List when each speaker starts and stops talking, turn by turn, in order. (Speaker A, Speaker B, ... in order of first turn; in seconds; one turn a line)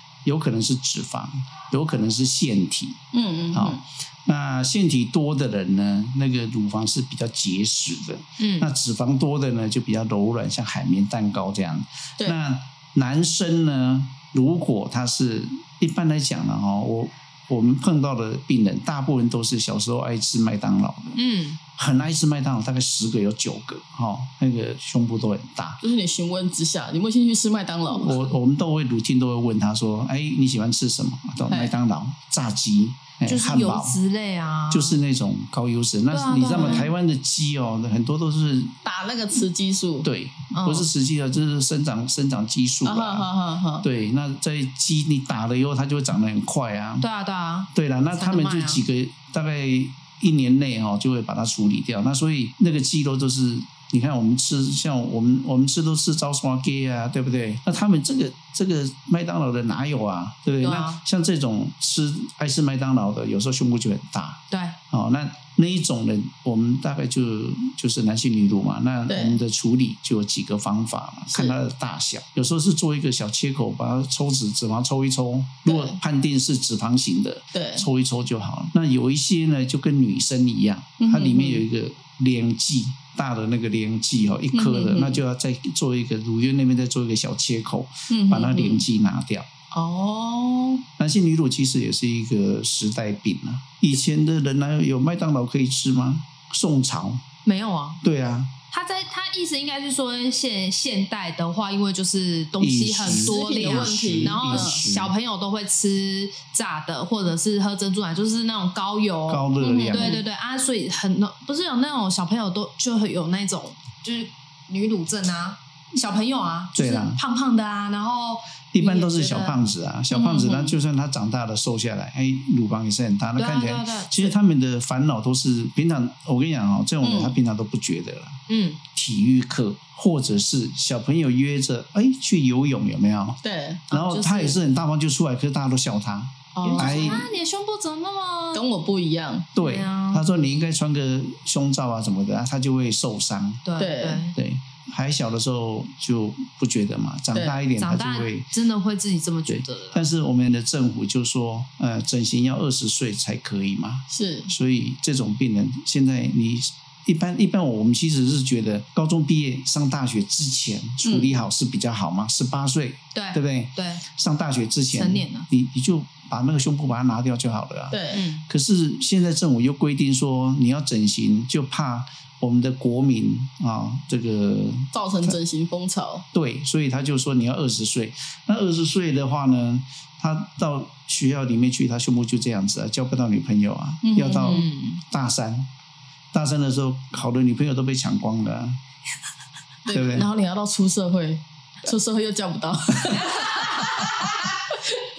Speaker A: 0.2-3.0
Speaker B: 3.1-3.8
Speaker A: 3.5-21.2
Speaker C: 8.4-8.7
Speaker C: 21.1-21.6
Speaker A: 21.8-25.8
Speaker B: 25.8-28.2
Speaker A: 27.9-34.0
Speaker B: 31.5-31.7
Speaker C: 33.2-35.0
Speaker A: 34.7-38.7
Speaker C: 36.1-36.9
Speaker B: 36.5-36.9
Speaker B: 38.8-40.1
Speaker A: 40.0-43.3
Speaker C: 40.5-40.9
Speaker B: 42.8-43.9
Speaker A: 43.8-47.0
Speaker C: 47.0-48.8
Speaker A: 47.7-89.5
Speaker C: 60.6-61.0
Speaker C: 64.5-64.8
Speaker B: 69.1-69.4
Speaker B: 71.3-71.6
Speaker B: 75.7-76.0
Speaker B: 77.5-77.8
Speaker B: 81.0-81.6
Speaker B: 84.5-85.2
Speaker B: 88.1-88.8
Speaker B: 89.7-90.8
Speaker A: 91.0-97.2
Speaker C: 97.4-98.0
Speaker A: 98.0-98.5
Speaker C: 98.7-119.6
Speaker A: 102.6-105.1
Speaker B: 103.0-104.8
Speaker A: 109.3-110.2
Speaker B: 109.6-110.2
Speaker A: 116.7-117.2
Speaker A: 118.7-128.4
Speaker C: 120.1-120.7
Speaker C: 123.4-124.3
Speaker B: 127.0-127.3
Speaker C: 128.5-128.8
Speaker A: 128.9-133.4
Speaker B: 133.4-133.8
Speaker C: 133.9-134.6
Speaker A: 133.9-137.2
Speaker B: 136.5-137.2
Speaker C: 136.6-138.6
Speaker B: 138.5-139.5
Speaker A: 139.5-143.6
Speaker C: 139.6-140.3
Speaker C: 143.6-144.3
Speaker B: 143.8-144.2
Speaker A: 144.3-148.5
Speaker B: 147.3-147.6
Speaker C: 147.8-150.0
Speaker A: 149.5-175.3
Speaker B: 154.1-154.5
Speaker B: 161.0-161.3
Speaker C: 163.1-164.0
Speaker C: 164.9-165.5
Speaker B: 167.9-168.2
Speaker C: 168.1-168.4
Speaker B: 174.9-176.2
Speaker A: 176.3-185.7
Speaker B: 184.0-184.7
Speaker C: 184.3-185.0
Speaker A: 186.3-188.8
Speaker B: 189.8-195.0
Speaker A: 189.9-190.3